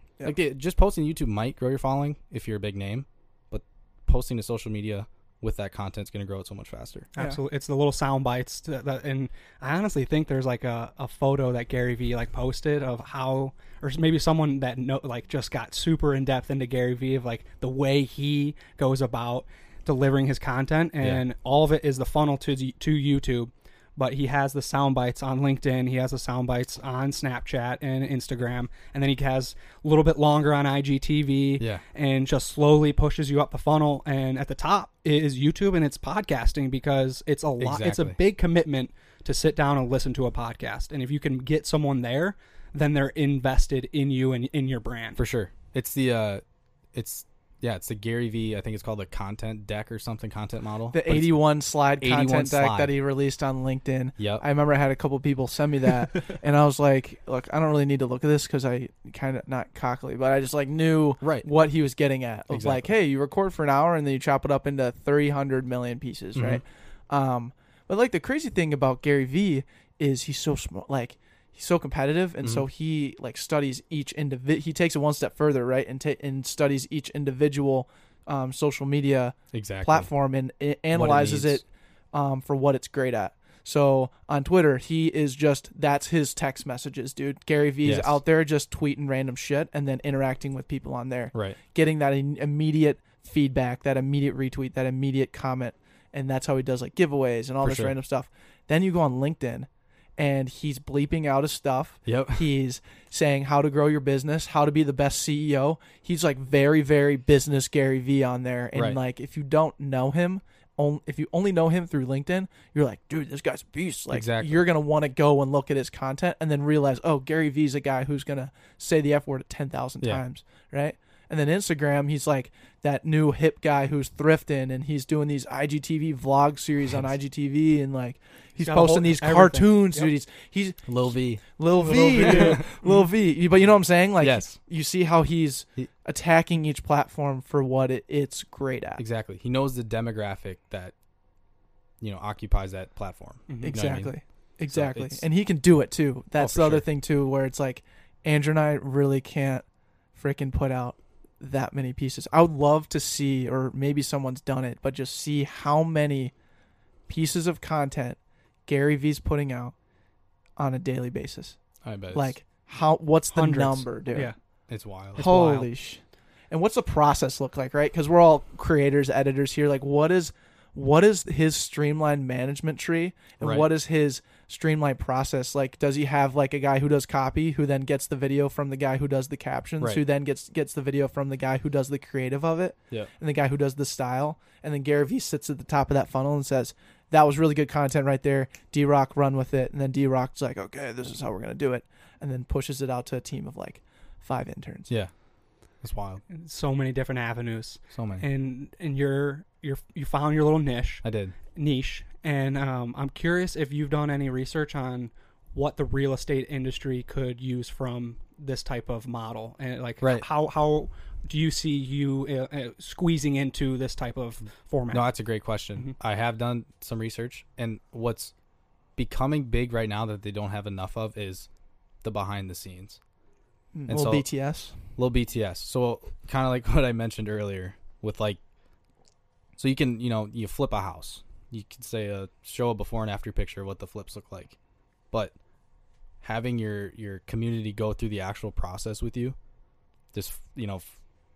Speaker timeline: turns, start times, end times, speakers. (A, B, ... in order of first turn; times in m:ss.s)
0:00.2-0:07.1 A
0:07.1-0:45.2 B
0:37.6-0:38.2 A
0:45.2-0:46.4 A
0:46.9-0:51.4 A
0:50.9-2:10.9 C
0:52.0-0:52.9 A
0:54.2-0:54.4 A
1:02.5-1:02.9 A
1:06.4-1:06.6 A
1:19.5-1:20.1 A
1:20.9-1:21.6 A
1:27.8-1:28.2 A
1:31.3-1:31.6 A
1:37.6-1:37.9 A
1:42.1-1:42.5 A
1:48.8-1:49.0 A
1:54.1-1:54.7 A
2:08.6-2:10.1 B
2:10.9-2:11.4 A
2:11.4-2:19.0 C
2:11.8-2:13.1 B
2:12.2-2:12.6 A
2:14.2-2:14.6 A
2:19.0-2:20.9 A
2:22.0-2:24.1 A
2:23.5-2:23.8 B
2:23.6-2:29.6 C
2:24.7-2:25.2 A
2:26.4-2:26.8 A
2:30.2-2:36.3 C
2:37.1-2:39.8 C
2:40.6-2:41.6 C
2:41.8-2:42.4 A
2:42.1-2:44.3 C
2:43.3-2:44.4 B
2:44.7-2:45.2 A
2:45.1-2:45.7 B
2:45.2-3:14.9 C
2:53.4-2:53.7 A
3:15.8-3:16.2 A
3:16.3-3:35.1 B
3:17.9-3:18.2 A
3:21.0-3:21.4 A
3:30.0-3:30.3 A
3:34.9-3:38.3 A
3:39.0-3:41.5 A
3:42.0-3:43.0 A
3:43.7-3:44.8 C
3:43.9-3:44.2 A
3:45.0-3:48.4 A
3:49.6-3:54.6 A
3:56.2-3:59.4 A
4:00.1-4:01.0 A